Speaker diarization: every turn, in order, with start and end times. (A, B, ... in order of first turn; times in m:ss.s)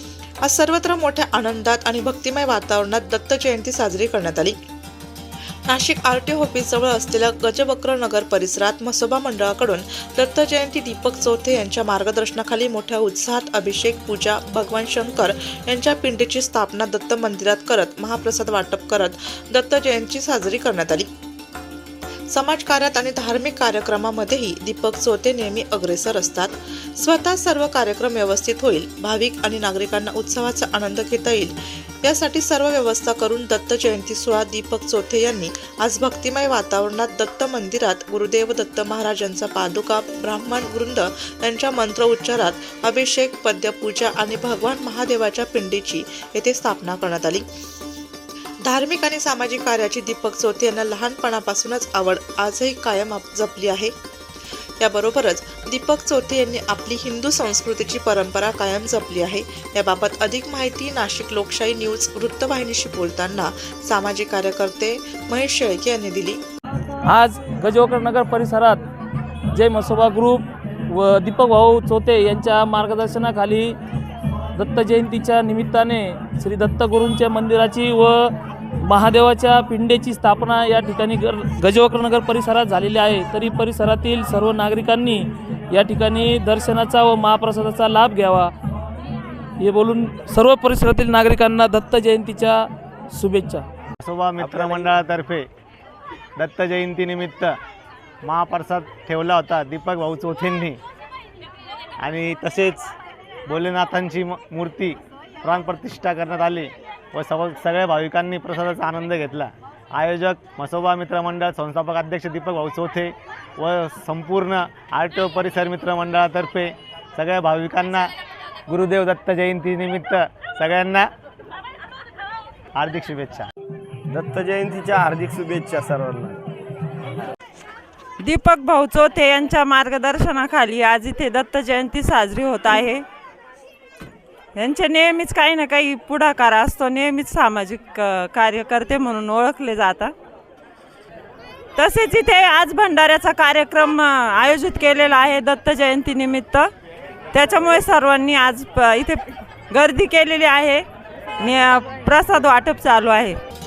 0:00.4-0:04.6 A
0:05.7-0:21.1 A
0:22.3-0:47.4 A
0:48.6-0:53.9 A
0:54.8-1:06.4 A
1:07.0-1:08.8 B
1:09.5-1:13.8 B
1:14.6-1:28.5 B
1:29.6-1:33.7 B
1:34.0-1:35.5 C
1:34.4-1:34.8 D
1:36.4-1:37.6 C
1:38.2-1:40.8 C
1:42.0-1:42.9 C
1:43.5-1:58.1 C
1:58.7-2:01.1 C
2:02.8-2:03.5 C
2:04.1-2:06.4 D
2:08.2-2:13.0 E
2:14.5-2:20.1 E
2:21.8-2:26.7 E
2:27.3-2:30.8 E
2:31.4-2:33.4 E